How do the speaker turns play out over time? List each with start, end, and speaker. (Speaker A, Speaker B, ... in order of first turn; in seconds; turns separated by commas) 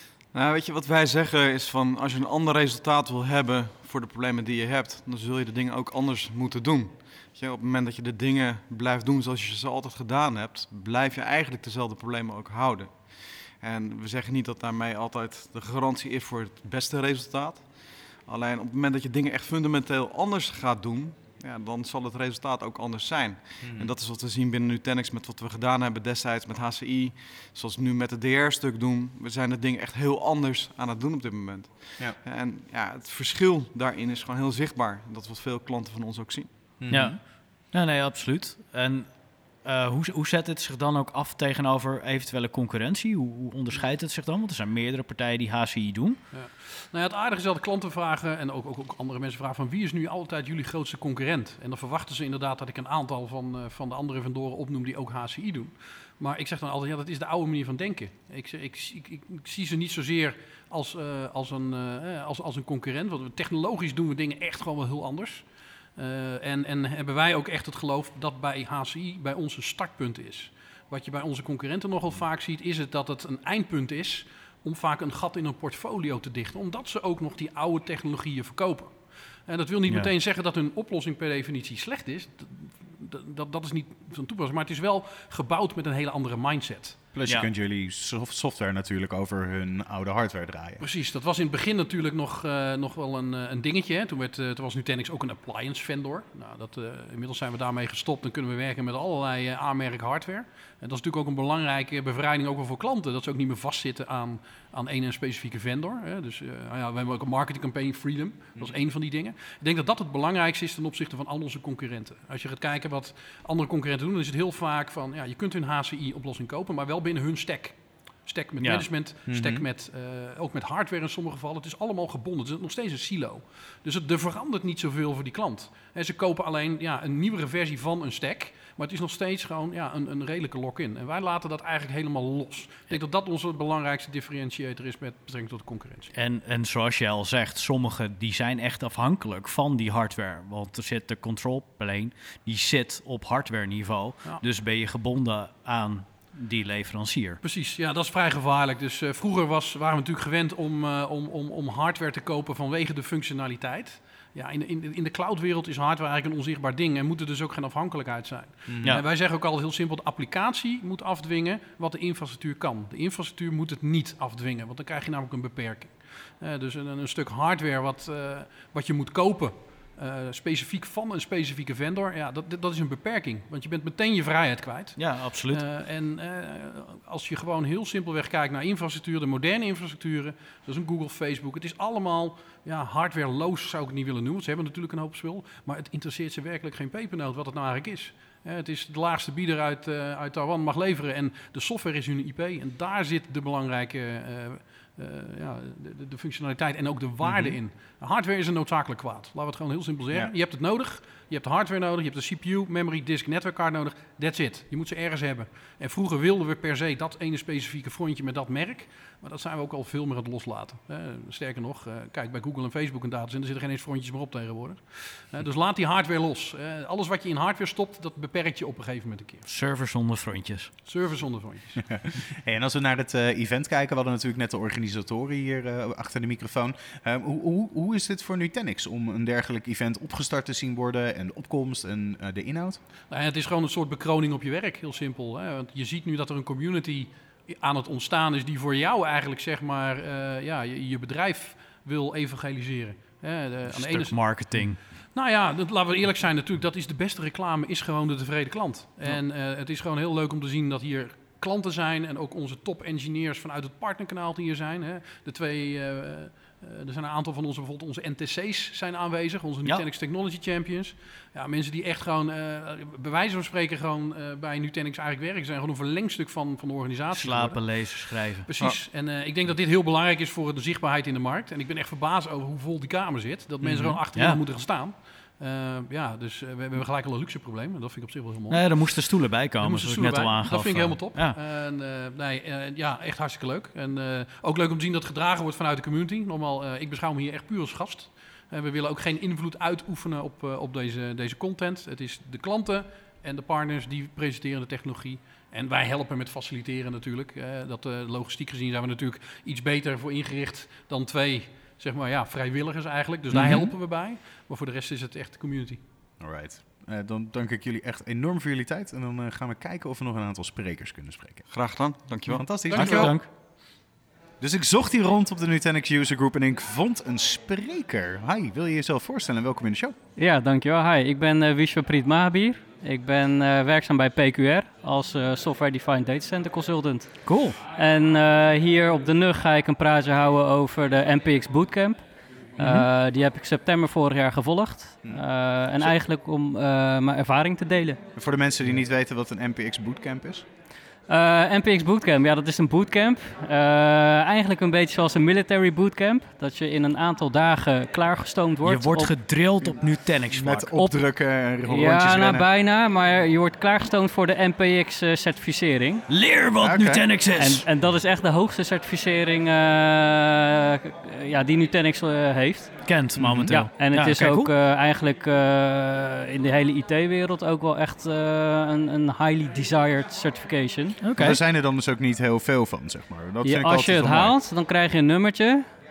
Speaker A: 0.3-36.8, Speaker B: 23.6-23.9, Speaker B: 36.8-37.2, Speaker C: 36.9-46.2, Speaker D: 46.3-87.1, Speaker B: 87.1-90.8, Speaker D: 90.8-136.1, Speaker C: 118.6-118.9, Speaker B: 119.3-119.6, Speaker C: 136.1-147.4, Speaker D: 147.4-219.4, Speaker B: 158.7-159.0, Speaker C: 175.0-175.6, Speaker B: 197.2-197.6, Speaker C: 219.4-220.7, Speaker D: 220.8-222.0, Speaker B: 221.9-232.8, Speaker D: 233.1-305.8, Speaker C: 243.7-244.8, Speaker C: 267.1-268.5, Speaker C: 273.6-274.4, Speaker C: 278.5-281.4, Speaker B: 303.3-303.7, Speaker C: 303.3-303.6, Speaker B: 306.2-311.4, Speaker A: 311.5-313.0, Speaker B: 312.2-313.2, Speaker C: 312.7-313.3, Speaker B: 314.4-319.9, Speaker E: 320.2-338.0, Speaker C: 327.2-327.6, Speaker C: 332.6-332.9, Speaker B: 338.1-340.4, Speaker E: 341.1-349.1, Speaker C: 348.6-350.8, Speaker B: 350.3-352.4, Speaker E: 351.6-356.1, Speaker C: 356.1-357.6, Speaker B: 356.6-357.1, Speaker E: 357.3-371.0, Speaker C: 362.8-364.5, Speaker B: 363.2-363.6, Speaker C: 371.0-371.4, Speaker B: 371.1-374.3, Speaker E: 373.4-375.7